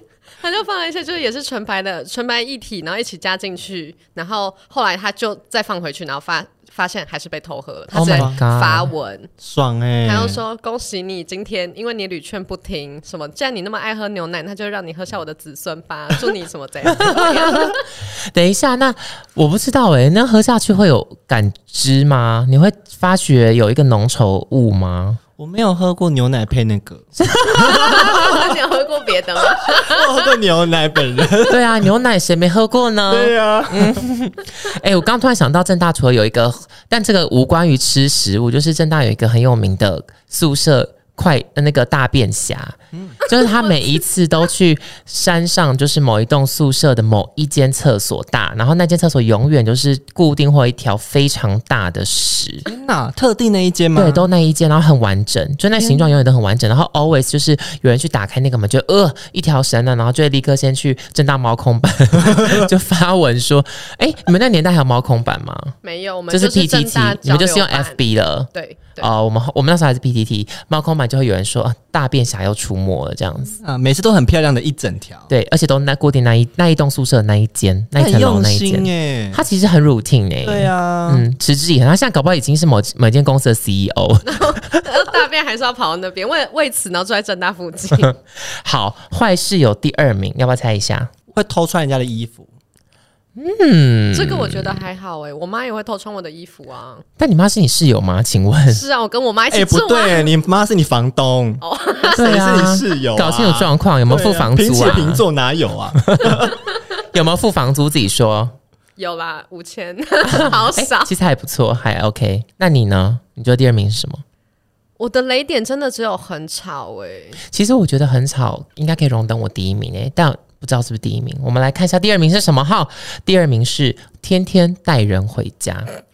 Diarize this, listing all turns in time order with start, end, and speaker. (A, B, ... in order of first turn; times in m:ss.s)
0:00.4-0:09.3 A
0:07.9-0:08.4 B
0:07.9-0:08.9 C
0:09.4-0:10.4 B
0:10.0-0:17.8 A
0:16.9-0:17.8 C
0:18.3-0:25.2 C
0:25.4-0:27.1 B
0:27.2-0:28.5 C
0:27.5-0:30.3 A
0:29.7-0:31.8 B
0:31.5-0:52.6 C
0:33.1-0:34.1 B
0:52.7-0:54.3 B
0:54.0-1:05.8 C
0:55.8-0:56.2 B
1:02.2-1:02.6 B
1:05.8-1:08.0 A
1:06.3-1:13.5 C
1:08.5-1:09.1 A
1:13.5-1:15.3 B
1:15.3-1:24.8 C
1:18.0-1:19.4 B
1:20.4-1:21.2 B
1:24.2-1:28.1 A
1:28.0-1:31.1 C
1:31.3-1:32.5 B
1:33.4-1:34.8 C
1:34.1-1:37.0 A
1:37.2-1:38.8 C
1:38.7-1:40.3 A
1:39.5-1:46.6 B
1:41.6-1:42.5 A
1:42.1-1:45.2 C
1:46.0-1:48.5 C
1:49.0-1:51.1 A
1:50.2-1:54.2 C
1:55.0-1:57.4 A
1:57.5-2:05.9 C